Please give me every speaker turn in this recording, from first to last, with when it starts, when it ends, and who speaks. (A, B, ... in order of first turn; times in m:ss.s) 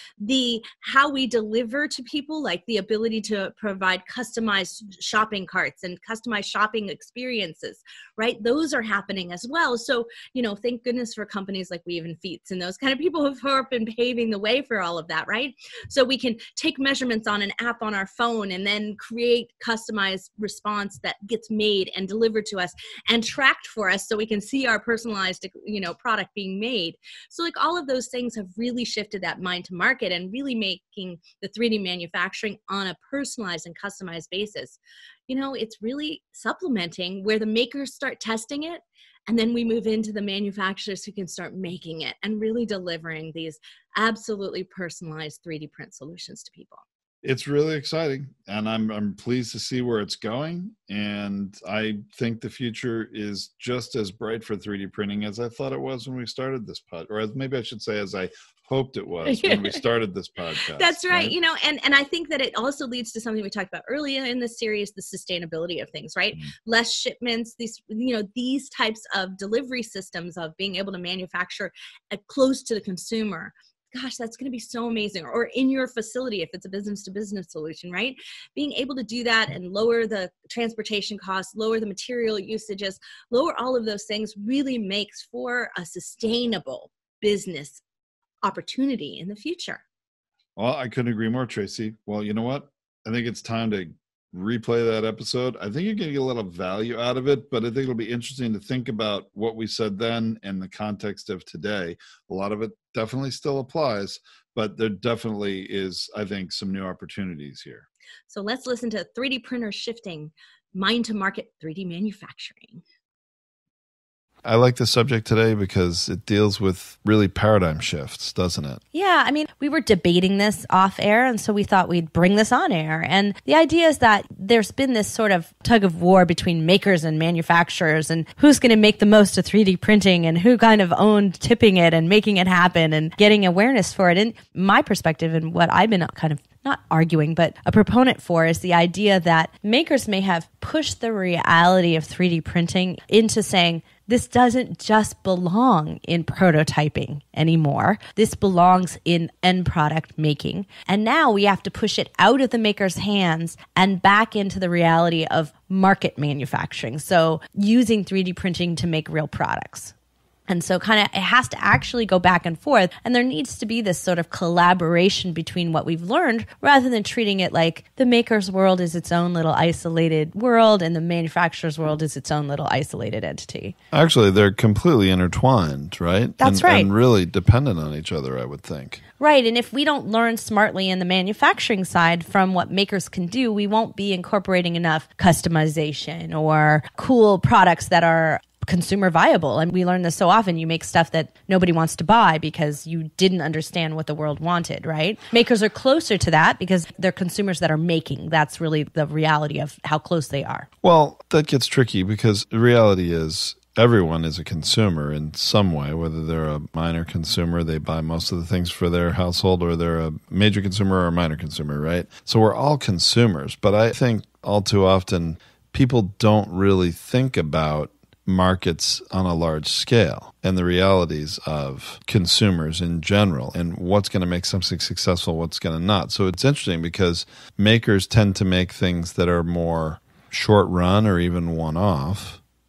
0:00.2-0:46.8 A
0:47.2-1:01.3 B
0:59.2-0:59.8 A
1:00.7-1:27.8 A
1:28.4-1:29.8 A
1:30.6-1:47.8 B
1:48.3-1:52.8 A
1:54.4-1:58.8 B
1:58.9-2:39.9 C
2:40.5-2:53.7 C
2:53.9-2:59.0 B
2:56.4-2:56.9 C
2:59.2-3:20.7 C
3:20.8-3:52.4 B